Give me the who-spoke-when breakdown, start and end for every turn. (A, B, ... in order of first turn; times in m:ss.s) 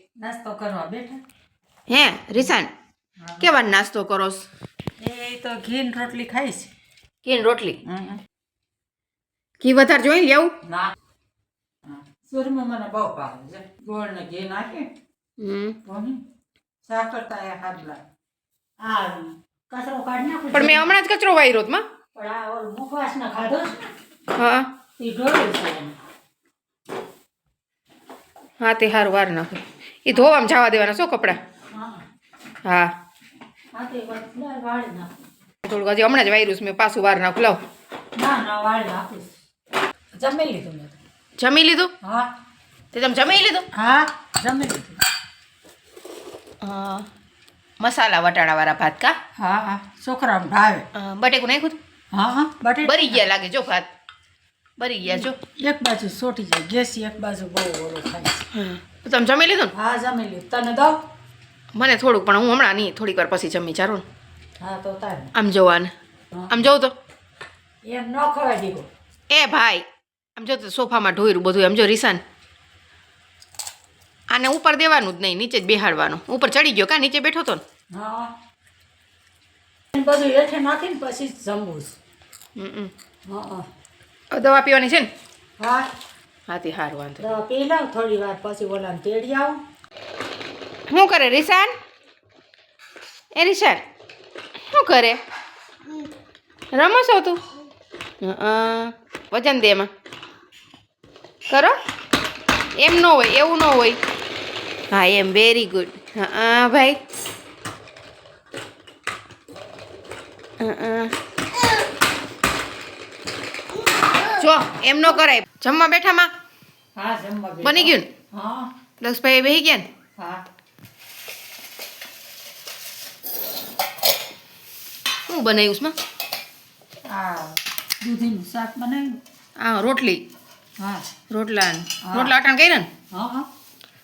0:00.2-0:01.2 A
0:01.9-0:02.7 B
0:03.2-0:03.5 A
0:03.4-0:04.4 B
0:05.0-0:06.7 A
0:07.2-0:07.8 B
0:07.8-0:08.2 A
0:09.6-0:10.5 B
0:10.6-0:10.9 A
0:11.9-0:14.9 A
0:15.4-0:15.8 B
0:15.8-0:16.2 A
0:16.8-0:18.0 A
0:18.8-0:21.0 A
0:20.5-0:21.8 B
0:22.2-0:23.9 A
0:24.3-0:24.7 B
0:25.0-0:26.0 A
0:28.6-0:31.4 B
0:31.7-0:32.0 A
0:32.6-0:32.9 B
0:33.7-0:35.2 A
0:35.6-0:37.6 B
0:38.2-0:39.3 A
0:40.1-0:41.0 A
0:41.4-0:41.9 B
0:42.0-0:42.3 A
0:42.9-0:43.7 B
0:43.7-0:45.0 A
0:46.6-0:47.1 B
0:47.8-0:49.2 B
0:49.4-0:50.9 A
0:50.9-0:51.8 B
0:52.1-0:53.3 A
0:52.8-0:53.9 B
0:54.8-0:55.4 B
0:55.1-0:58.5 A
0:58.5-0:59.7 B
0:59.7-1:01.0 A
1:01.8-1:04.0 B
1:04.6-1:05.3 A
1:05.3-1:05.9 B
1:06.5-1:06.9 B
1:07.8-1:08.9 A
1:09.3-1:09.8 B
1:10.4-1:12.2 B
1:14.3-1:17.6 B
1:17.9-1:18.3 A
1:19.9-1:22.0 A
1:22.6-1:22.9 B
1:23.3-1:23.7 A
1:24.3-1:25.1 B
1:25.6-1:25.9 A
1:26.5-1:27.3 B
1:27.2-1:29.6 A
1:30.9-1:31.8 B
1:33.4-1:33.8 B
1:34.6-1:35.2 B
1:36.7-1:37.4 B
1:38.2-1:39.9 B
1:41.5-1:41.8 B
1:42.8-1:44.0 B
1:44.9-1:47.0 B
1:50.6-1:51.1 B
1:54.2-1:56.3 B
1:57.0-1:58.7 A
1:57.6-1:58.1 B
1:59.0-1:59.9 B
2:00.2-2:00.4 A
2:05.3-2:06.0 B
2:07.1-2:09.2 A
2:09.6-2:10.2 B
2:10.8-2:11.1 A
2:11.3-2:12.9 B
2:12.0-2:12.4 A
2:13.1-2:13.5 A